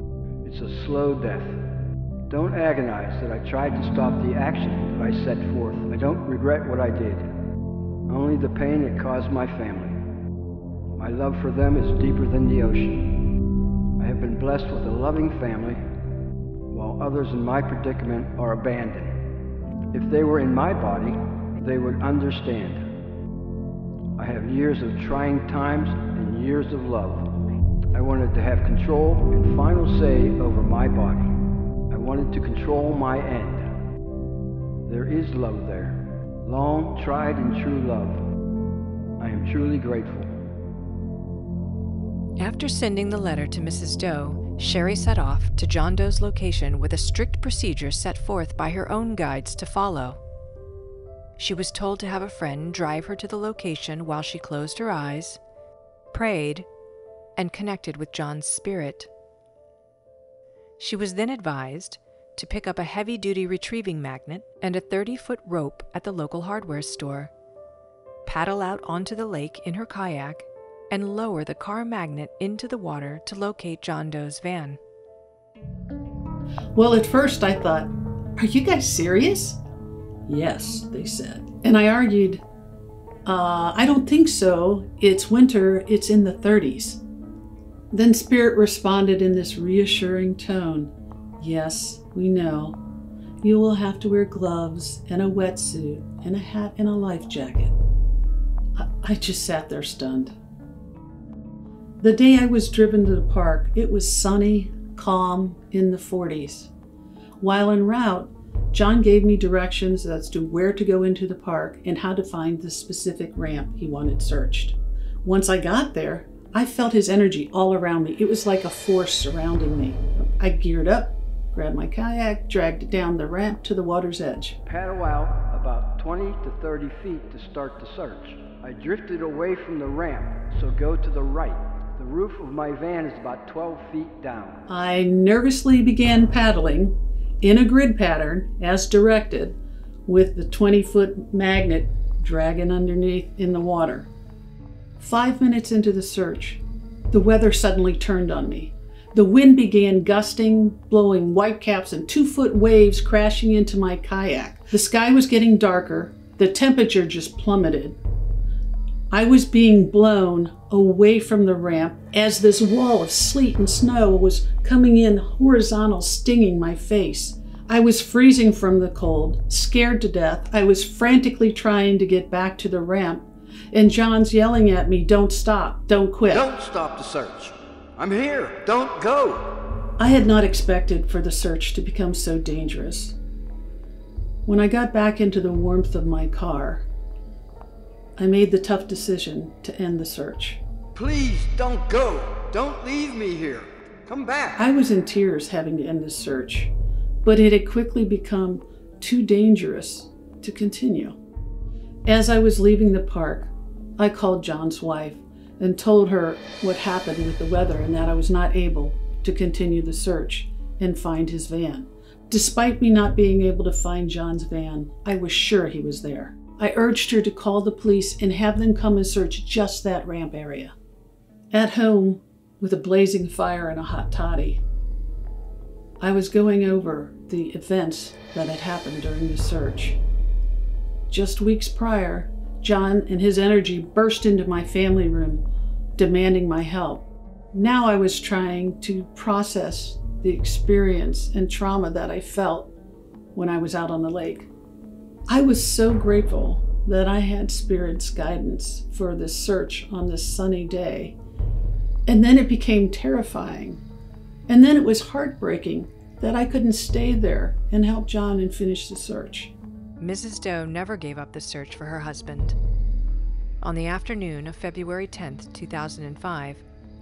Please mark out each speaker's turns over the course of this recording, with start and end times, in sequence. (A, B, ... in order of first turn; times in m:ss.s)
0:00.4-0:01.6 A
0:02.3-0:07.3 A
0:08.1-0:10.0 A
0:11.0-0:13.1 A
0:14.0-0:15.8 A
0:16.7-0:19.2 A
0:19.9-0:22.9 A
0:24.2-0:27.3 A
0:27.9-0:31.4 A
0:31.9-0:33.7 A
0:34.9-0:38.2 A
0:39.2-0:40.3 A
0:42.4-0:50.2 B
0:51.4-0:55.4 B
0:56.1-0:56.7 B
0:57.4-0:59.1 B
1:00.8-1:07.3 B
1:08.2-1:14.8 B
1:16.7-1:19.6 C
1:20.3-1:22.4 C
1:23.2-1:27.0 C
1:27.9-1:32.8 C
1:33.4-1:37.7 C
1:38.8-1:40.3 C
1:42.0-1:46.7 C
1:47.4-2:04.6 C
2:04.6-2:14.6 A
2:14.7-2:24.1 C
2:25.0-2:38.0 C
2:39.1-2:56.5 C
2:56.3-2:59.6 A
3:00.0-3:03.2 C
3:04.4-3:06.8 C
3:08.2-3:10.6 C
3:10.9-3:14.6 A
3:14.6-3:21.2 C
3:22.0-3:40.7 C
3:41.5-3:44.6 C
3:46.0-3:50.0 C
3:51.1-3:55.4 C
3:56.0-4:02.7 C
4:03.3-4:04.5 C
4:05.3-4:11.2 C
4:12.1-4:13.8 C
4:14.5-4:19.5 C
4:20.0-4:22.6 B
4:23.6-4:26.6 B